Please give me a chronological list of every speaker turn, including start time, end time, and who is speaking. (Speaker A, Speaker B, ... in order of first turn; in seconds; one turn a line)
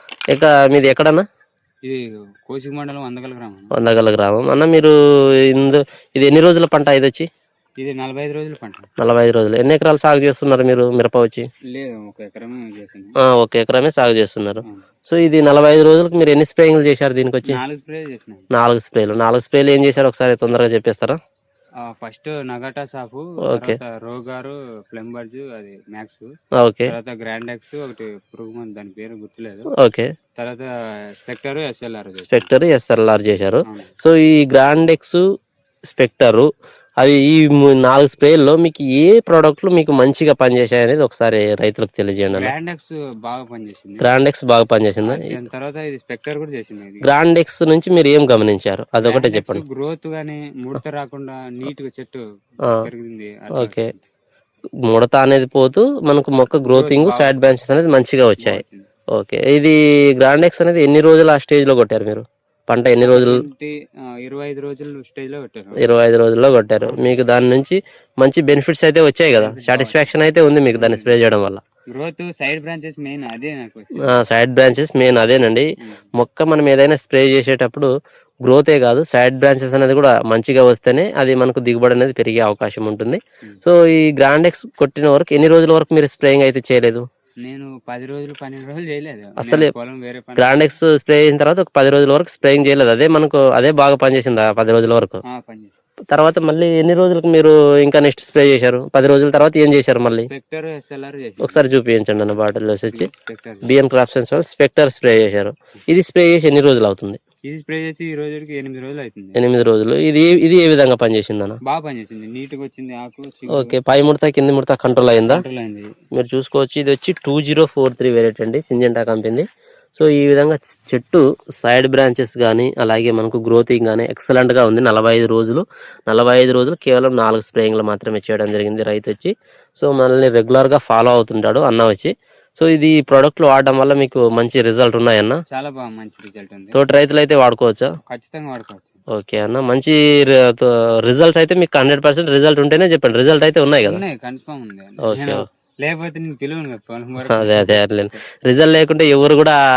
Speaker A: 0.3-1.3
Speaker B: 1.8-3.8
Speaker A: 3.7-5.0
Speaker A: 5.5-7.3
Speaker B: 7.8-8.9
Speaker A: 9.0-11.5
Speaker B: 11.7-13.2
Speaker A: 13.2-17.6
Speaker B: 17.4-18.5
Speaker A: 18.5-21.2
Speaker B: 21.8-26.3
Speaker A: 23.4-23.8
Speaker A: 26.6-26.9
Speaker B: 26.9-29.7
Speaker A: 29.7-30.1
Speaker B: 30.4-32.5
Speaker A: 32.2-35.2
Speaker B: 33.7-33.9
Speaker A: 35.9-36.5
Speaker A: 37.0-42.5
Speaker B: 42.3-44.1
Speaker A: 44.0-45.3
Speaker B: 45.0-47.1
Speaker A: 47.0-49.6
Speaker B: 49.0-54.1
Speaker A: 53.5-53.9
Speaker A: 54.9-58.6
Speaker B: 56.5-57.4
Speaker B: 58.4-58.9
Speaker A: 59.1-63.4
Speaker B: 63.0-65.8
Speaker A: 65.8-71.6
Speaker B: 66.8-67.1
Speaker B: 69.3-70.1
Speaker B: 70.8-71.2
Speaker B: 71.9-74.2
Speaker A: 74.0-77.9
Speaker A: 78.5-87.1
Speaker B: 87.4-90.8
Speaker A: 89.4-89.7
Speaker A: 90.4-95.2
Speaker B: 95.3-95.8
Speaker A: 96.1-100.3
Speaker B: 100.3-101.7
Speaker A: 101.4-103.1
Speaker B: 102.9-103.7
Speaker A: 103.7-107.2
Speaker B: 107.5-109.4
Speaker A: 109.3-111.6
Speaker B: 111.7-113.8
Speaker A: 113.5-115.4
Speaker B: 115.3-116.0
Speaker A: 116.1-135.4
Speaker B: 135.5-136.8
Speaker A: 136.7-137.9
Speaker B: 138.1-139.0
Speaker A: 139.1-144.0
Speaker B: 143.8-148.2
Speaker A: 145.0-145.5
Speaker A: 147.3-149.6